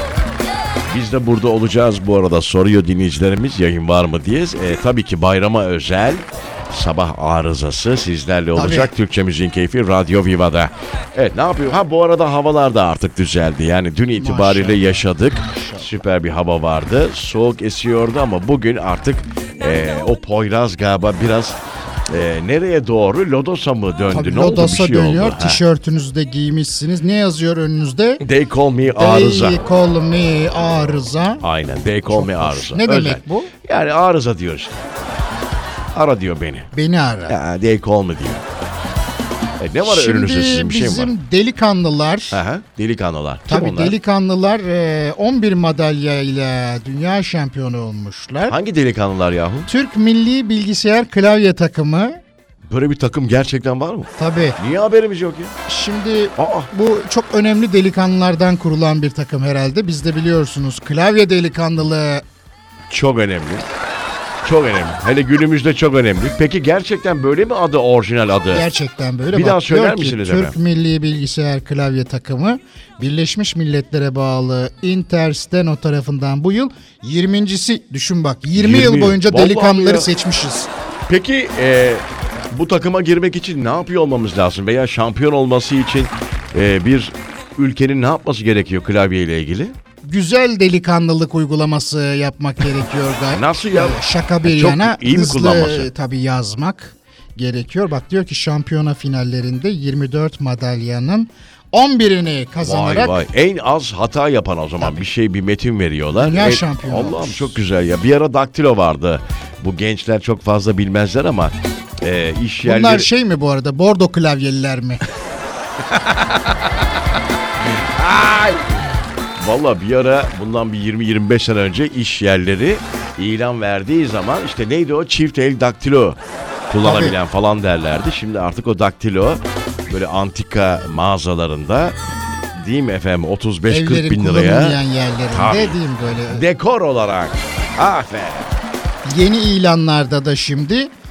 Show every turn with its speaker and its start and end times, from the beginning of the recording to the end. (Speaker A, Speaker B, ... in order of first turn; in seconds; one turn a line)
Speaker A: 0.9-25.6
Speaker B: 8.5-8.9
Speaker B: 14.2-15.9
Speaker B: 24.1-28.2
Speaker A: 28.2-29.6
Speaker B: 28.9-31.4
Speaker A: 31.4-34.9
Speaker B: 32.1-33.5
Speaker A: 35.9-36.7
Speaker B: 36.7-37.4
Speaker A: 37.3-38.4
Speaker A: 39.6-41.1
Speaker B: 39.8-42.4
Speaker A: 42.3-44.0
Speaker B: 43.5-48.5
Speaker A: 48.5-49.7
Speaker B: 49.7-52.2
Speaker A: 52.7-55.5
Speaker B: 54.2-54.6
Speaker B: 55.7-62.2
Speaker A: 56.4-56.7
Speaker A: 62.9-63.6
Speaker A: 64.4-68.7
Speaker B: 68.5-80.7
Speaker A: 69.3-70.6
Speaker A: 78.5-80.1
Speaker A: 81.1-89.8
Speaker B: 90.0-103.1
Speaker A: 93.3-95.9
Speaker A: 102.6-113.1
Speaker B: 106.2-107.5
Speaker B: 112.6-115.0
Speaker A: 115.8-116.9
Speaker A: 117.6-118.8
Speaker A: 119.4-131.9
Speaker B: 126.8-127.1
Speaker A: 132.5-138.5
Speaker B: 133.7-136.4
Speaker B: 139.0-140.9